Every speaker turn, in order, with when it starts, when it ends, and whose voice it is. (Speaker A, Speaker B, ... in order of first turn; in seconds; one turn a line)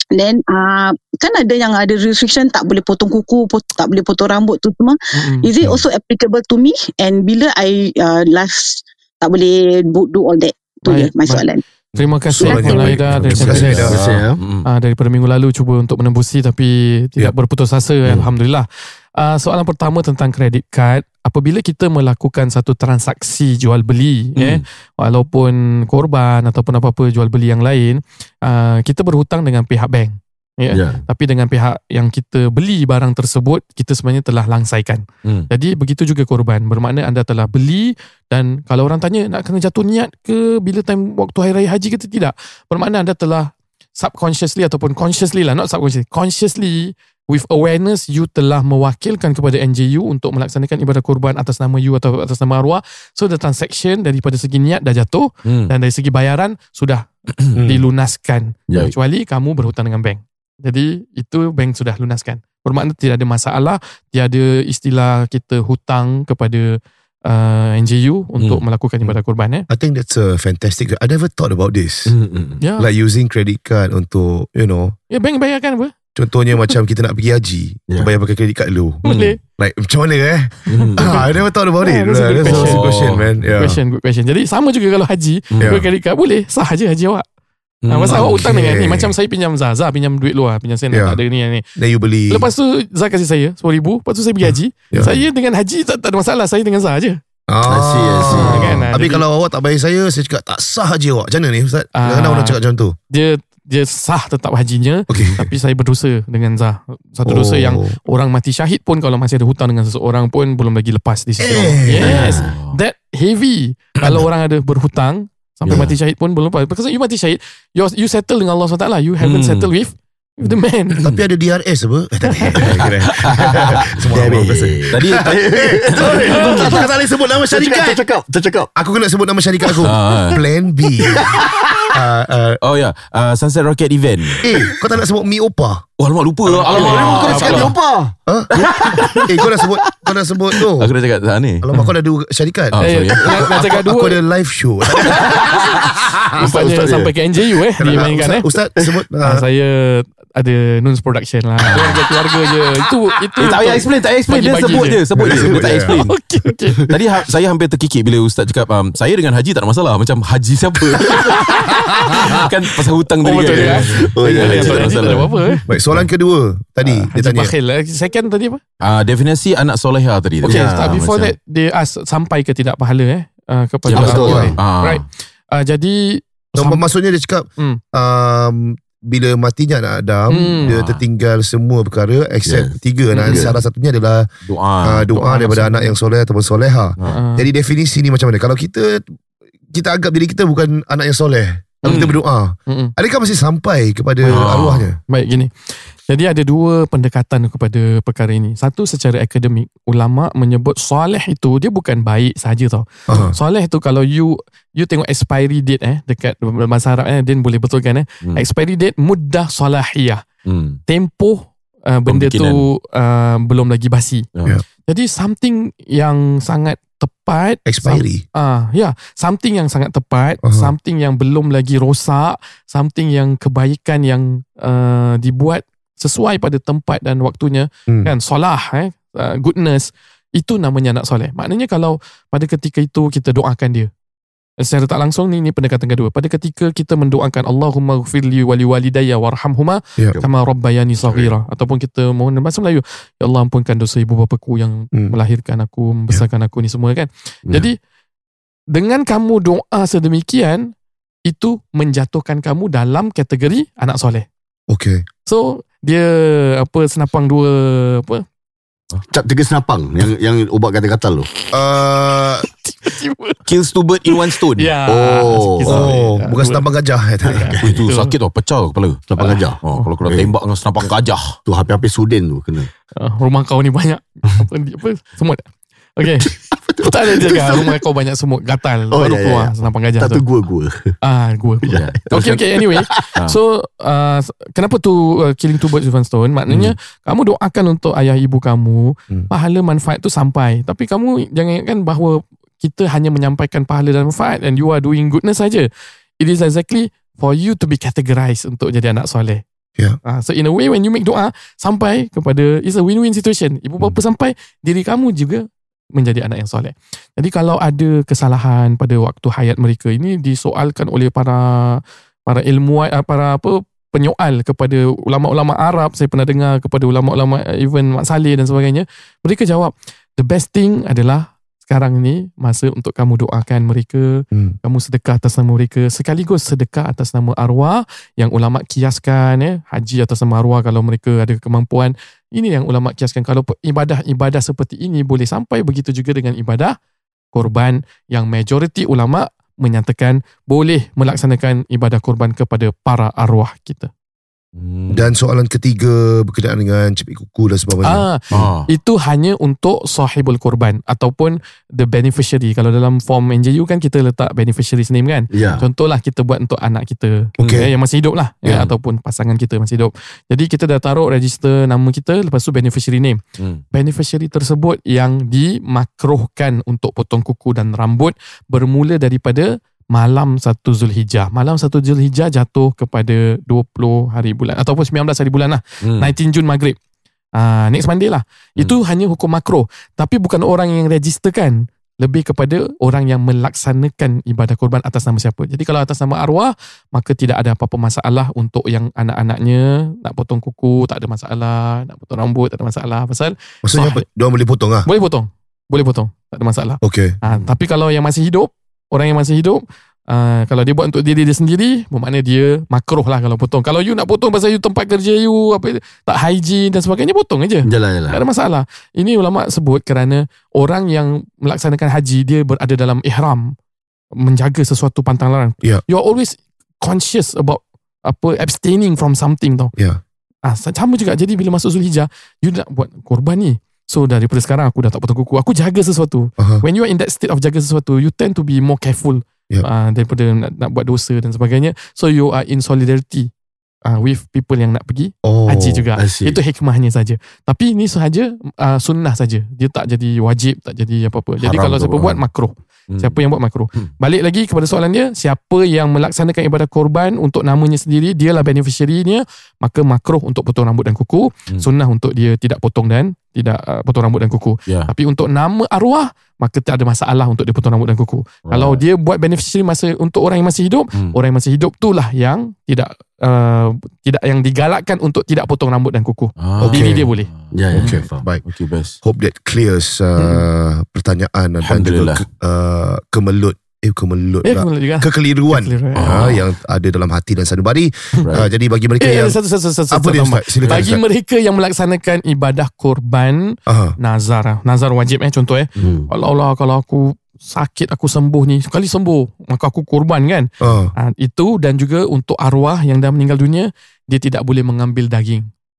Speaker A: 0.1-11.6
Speaker B: 5.2-5.5
Speaker B: 10.9-11.4
Speaker C: 11.9-14.0
Speaker B: 12.0-13.9
Speaker A: 12.4-12.9
Speaker D: 13.1-14.7
Speaker E: 13.3-14.4
Speaker B: 14.7-69.7
Speaker E: 18.1-18.3
Speaker D: 24.4-24.6
Speaker E: 30.7-31.0
Speaker D: 55.5-55.7
Speaker C: 57.5-57.8
Speaker C: 69.7-72.2
Speaker E: 72.1-72.6
Speaker B: 72.6-72.9
Speaker C: 72.8-75.0
Speaker B: 75.1-75.9
Speaker C: 76.2-79.0
Speaker B: 79.0-79.4
Speaker D: 79.1-79.4
Speaker C: 79.6-83.8
Speaker E: 80.8-81.1
Speaker B: 80.8-81.2
Speaker B: 81.8-82.8
Speaker D: 82.5-83.6
Speaker B: 83.6-87.2
Speaker D: 87.8-88.5
Speaker B: 87.9-91.6
Speaker C: 88.1-89.1
Speaker C: 90.9-91.2
Speaker C: 91.8-92.5
Speaker B: 92.3-97.2
Speaker C: 94.4-95.1
Speaker C: 97.5-103.0
Speaker E: 97.7-98.9
Speaker B: 98.3-99.2
Speaker B: 102.0-102.6
Speaker B: 103.1-121.0
Speaker C: 105.1-105.5
Speaker D: 105.1-105.4
Speaker C: 107.2-108.0
Speaker C: 111.4-112.3
Speaker E: 112.0-112.5
Speaker D: 112.0-112.8
Speaker D: 119.2-119.7
Speaker D: 121.0-121.2
Speaker C: 121.0-128.0
Speaker D: 122.6-126.8
Speaker E: 123.5-126.9
Speaker E: 127.5-128.7
Speaker C: 128.8-131.3
Speaker D: 129.8-130.4
Speaker E: 131.0-132.0
Speaker C: 131.9-132.6
Speaker D: 132.6-134.4
Speaker E: 134.3-134.7
Speaker C: 134.4-135.8
Speaker D: 136.0-137.7
Speaker E: 136.5-139.4
Speaker B: 136.7-137.7
Speaker C: 138.3-140.9
Speaker D: 138.7-139.2
Speaker D: 140.8-141.7
Speaker C: 141.6-145.2
Speaker D: 142.7-143.5
Speaker B: 142.8-144.2
Speaker E: 145.5-147.2
Speaker B: 146.4-148.5
Speaker C: 147.8-149.4
Speaker B: 149.2-155.0
Speaker E: 151.7-152.5
Speaker D: 153.4-156.1
Speaker C: 155.2-156.1
Speaker E: 155.2-155.6
Speaker B: 156.0-156.8
Speaker D: 156.9-166.1
Speaker E: 163.3-165.0
Speaker B: 163.3-165.6
Speaker C: 165.7-167.5
Speaker B: 166.8-168.6
Speaker D: 168.8-171.3
Speaker E: 170.4-171.0
Speaker B: 170.4-176.8
Speaker E: 173.9-174.6
Speaker D: 173.9-175.1
Speaker C: 174.0-174.5
Speaker C: 176.5-184.3
Speaker B: 180.3-180.7
Speaker D: 180.7-181.0
Speaker E: 182.4-183.5
Speaker B: 183.1-183.5
Speaker D: 184.5-185.1
Speaker C: 184.8-189.1
Speaker B: 185.2-186.0
Speaker B: 187.1-187.5
Speaker C: 189.7-195.0
Speaker D: 191.9-192.2
Speaker B: 192.7-192.9
Speaker B: 194.2-194.5
Speaker D: 194.3-194.9
Speaker B: 195.1-210.2
Speaker C: 203.1-203.4
Speaker D: 210.5-210.8
Speaker B: 210.9-214.3
Speaker D: 212.1-212.7
Speaker B: 214.9-233.9
Speaker C: 217.7-218.2
Speaker C: 220.4-220.7
Speaker C: 227.9-228.1
Speaker B: 234.6-247.8
Speaker D: 241.0-241.3
Speaker B: 248.7-250.7
Speaker B: 251.3-254.3
Speaker C: 254.7-255.1
Speaker B: 255.3-258.2
Speaker E: 259.1-261.3
Speaker C: 261.5-262.4
Speaker B: 262.4-263.4
Speaker D: 263.5-264.7
Speaker B: 264.1-266.6
Speaker E: 264.9-265.9
Speaker C: 265.7-267.5
Speaker B: 267.2-268.1
Speaker E: 267.3-267.7
Speaker D: 267.6-271.4
Speaker E: 269.1-270.9
Speaker B: 269.2-269.9
Speaker E: 271.5-272.7
Speaker B: 273.0-275.5
Speaker B: 276.0-280.2
Speaker E: 276.3-277.8
Speaker E: 278.9-280.9
Speaker B: 281.0-295.7
Speaker E: 281.7-283.1
Speaker D: 281.8-282.4
Speaker B: 296.2-299.4
Speaker B: 300.1-305.4
Speaker B: 305.9-336.8
Speaker B: 337.3-343.9
Speaker D: 344.6-345.1
Speaker C: 344.9-348.1
Speaker B: 347.8-363.2
Speaker D: 348.3-348.7
Speaker E: 355.3-355.6
Speaker C: 357.4-357.7
Speaker D: 358.5-358.7
Speaker B: 363.7-376.8
Speaker D: 375.8-376.1
Speaker B: 377.4-394.0
Speaker C: 393.6-394.9
Speaker B: 394.9-413.5
Speaker C: 396.8-397.2
Speaker E: 407.7-408.2
Speaker B: 414.2-419.7
Speaker C: 419.8-420.0
Speaker B: 420.5-433.3
Speaker C: 426.4-426.6
Speaker B: 433.9-467.3
Speaker C: 435.2-435.9
Speaker E: 436.0-436.4
Speaker D: 441.5-442.2
Speaker D: 442.9-443.2
Speaker D: 454.7-454.9
Speaker D: 466.4-469.0
Speaker C: 466.6-467.0
Speaker E: 467.5-468.3
Speaker C: 467.7-468.4
Speaker C: 469.0-479.4
Speaker D: 471.6-472.2
Speaker B: 474.4-476.3
Speaker D: 476.0-476.4
Speaker B: 479.0-495.5
Speaker C: 479.9-481.0
Speaker C: 483.7-484.0
Speaker E: 485.8-486.1
Speaker C: 490.6-490.9